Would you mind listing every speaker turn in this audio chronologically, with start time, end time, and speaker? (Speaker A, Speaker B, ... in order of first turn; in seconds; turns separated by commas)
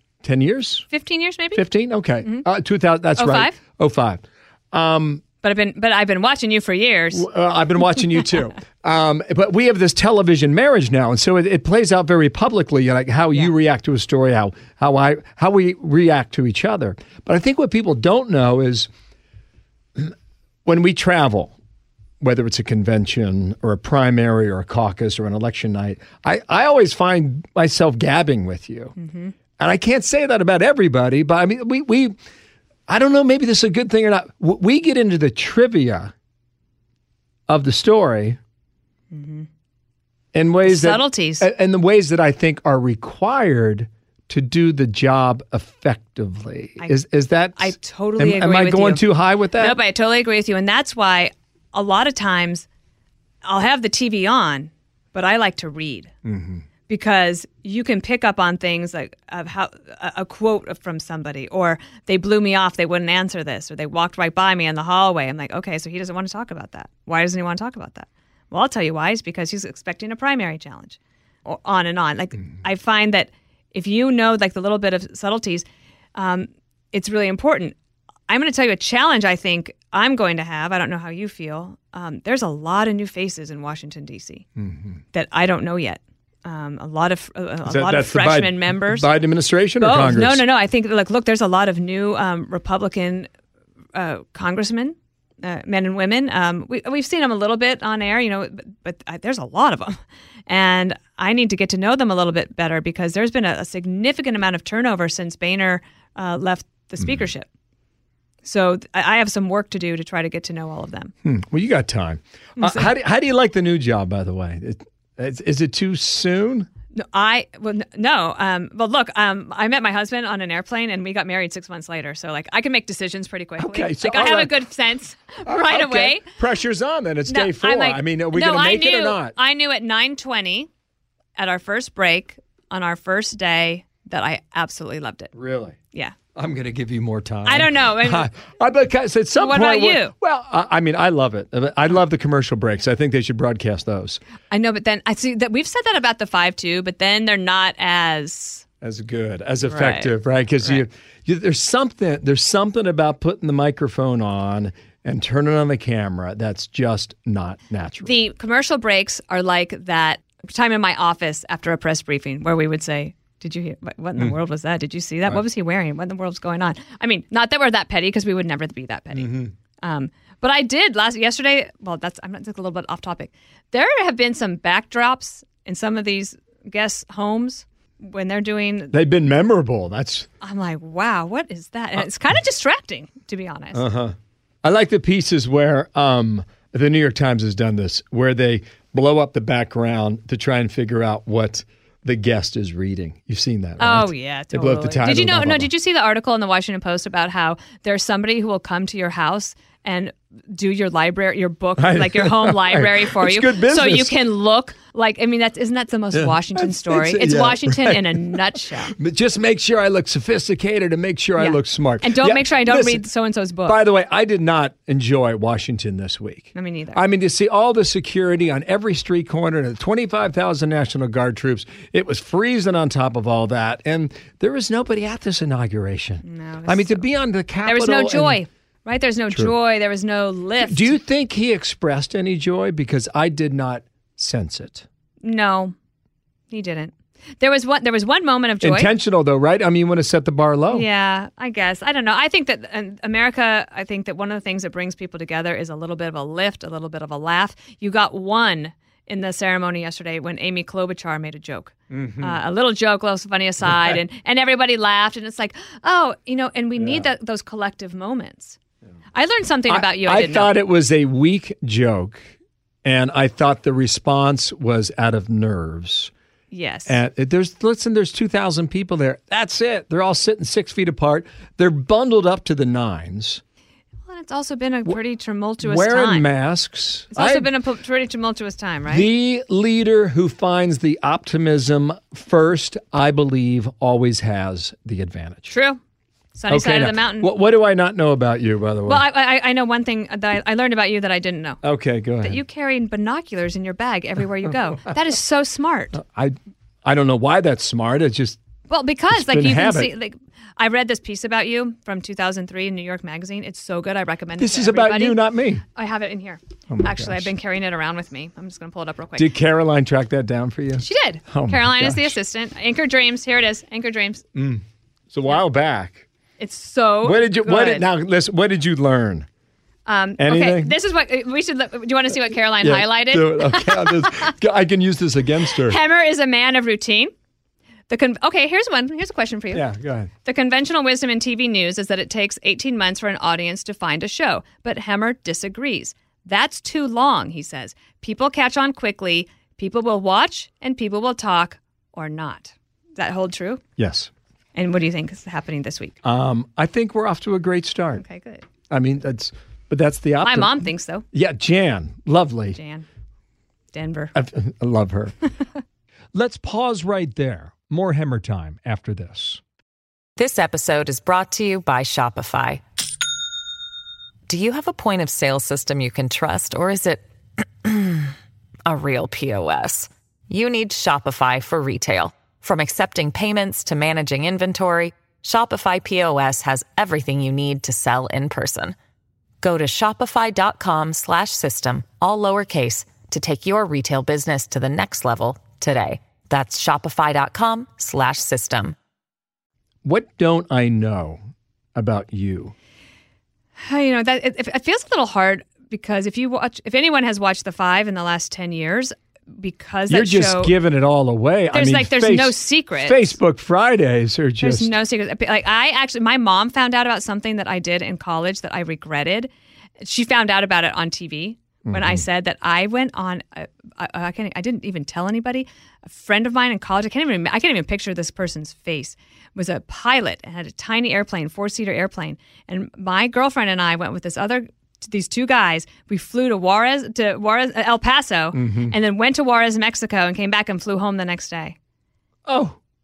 Speaker A: 0.2-0.9, Speaker B: 0.9-1.6, Speaker A: 1.5-5.2, Speaker B: 3.2-3.6, Speaker B: 5.4-7.3, Speaker A: 7.1-18.9, Speaker A: 20.6-21.6, Speaker A: 22.2-28.9, Speaker B: 29.0-29.3, Speaker A: 29.6-32.1, Speaker A: 32.9-36.1, Speaker A: 37.5-38.4, Speaker B: 39.1-39.5, Speaker A: 40.3-49.8, Speaker B: 40.6-41.5, Speaker B: 47.5-52.6, Speaker B: 53.4-56.1, Speaker A: 56.2-56.6, Speaker B: 56.9-77.8, Speaker B: 78.3-84.4, Speaker A: 84.6-85.0, Speaker B: 85.1-89.1, Speaker A: 87.6-90.4, Speaker B: 89.8-93.3, Speaker B: 93.9-107.5, Speaker B: 108.4-111.1, Speaker A: 111.2-116.7, Speaker B: 112.6-112.9, Speaker B: 116.9-126.2, Speaker A: 123.6-124.6, Speaker A: 125.4-129.3, Speaker B: 127.3-130.7, Speaker B: 131.4-135.3, Speaker A: 135.3-135.8, Speaker A: 136.3-144.2, Speaker B: 137.4-138.3, Speaker B: 139.3-140.1, Speaker B: 144.5-148.7, Speaker A: 148.8-158.2, Speaker B: 149.7-150.8, Speaker B: 158.0-178.9, Speaker A: 169.1-169.5, Speaker A: 178.9-180.3, Speaker B: 180.4-183.8, Speaker A: 183.7-195.7, Speaker B: 193.8-208.9, Speaker A: 201.8-204.2, Speaker A: 206.1-213.1, Speaker B: 211.4-213.8, Speaker A: 213.6-228.4, Speaker B: 216.5-217.0, Speaker B: 226.2-227.1, Speaker B: 227.6-231.0, Speaker A: 230.6-234.8, Speaker B: 235.2-235.7, Speaker B: 236.5-238.9, Speaker A: 238.6-240.9, Speaker B: 240.7-258.6, Speaker A: 251.9-252.4, Speaker A: 253.6-254.0, Speaker A: 256.8-257.1, Speaker B: 259.1-260.5, Speaker A: 259.7-262.3, Speaker A: 262.8-266.1, Speaker B: 266.5-267.0, Speaker A: 266.9-273.4, Speaker B: 274.1-276.3, Speaker A: 275.6-277.5, Speaker B: 277.1-279.1, Speaker A: 278.9-285.5, Speaker B: 285.5-285.8, Speaker B: 286.3-287.3, Speaker A: 286.5-289.1, Speaker B: 288.9-291.6, Speaker A: 291.6-292.4, Speaker B: 292.2-296.0, Speaker A: 295.9-298.4, Speaker B: 298.7-309.3, Speaker A: 299.1-299.9, Speaker A: 304.4-305.6, Speaker A: 306.7-307.3, Speaker A: 309.1-312.1, Speaker B: 310.8-314.2, Speaker A: 314.3-316.0, Speaker B: 316.4-317.9, Speaker A: 317.0-319.2, Speaker B: 319.9-324.3, Speaker A: 320.2-320.8, Speaker A: 322.6-325.8, Speaker B: 325.5-327.1, Speaker B: 327.9-329.7, Speaker A: 329.5-330.1, Speaker B: 330.2-343.6, Speaker A: 343.8-344.1, Speaker B: 344.5-346.0, Speaker A: 346.0-348.0, Speaker B: 348.0-348.4, Speaker A: 348.7-352.6, Speaker B: 350.2-351.0, Speaker B: 352.5-352.8, Speaker B: 353.7-354.1, Speaker A: 354.1-355.1, Speaker A: 356.1-359.4, Speaker C: 360.2-362.6, Speaker C: 364.3-367.0, Speaker C: 367.6-368.1, Speaker C: 368.6-378.8, Speaker C: 379.4-388.7, Speaker A: 389.8-391.2, Speaker A: 391.8-392.5, Speaker B: 393.6-400.5, Speaker A: 399.9-404.8, Speaker B: 401.5-403.2, Speaker B: 404.4-431.6, Speaker A: 411.6-412.0, Speaker A: 428.3-428.8, Speaker A: 432.2-432.6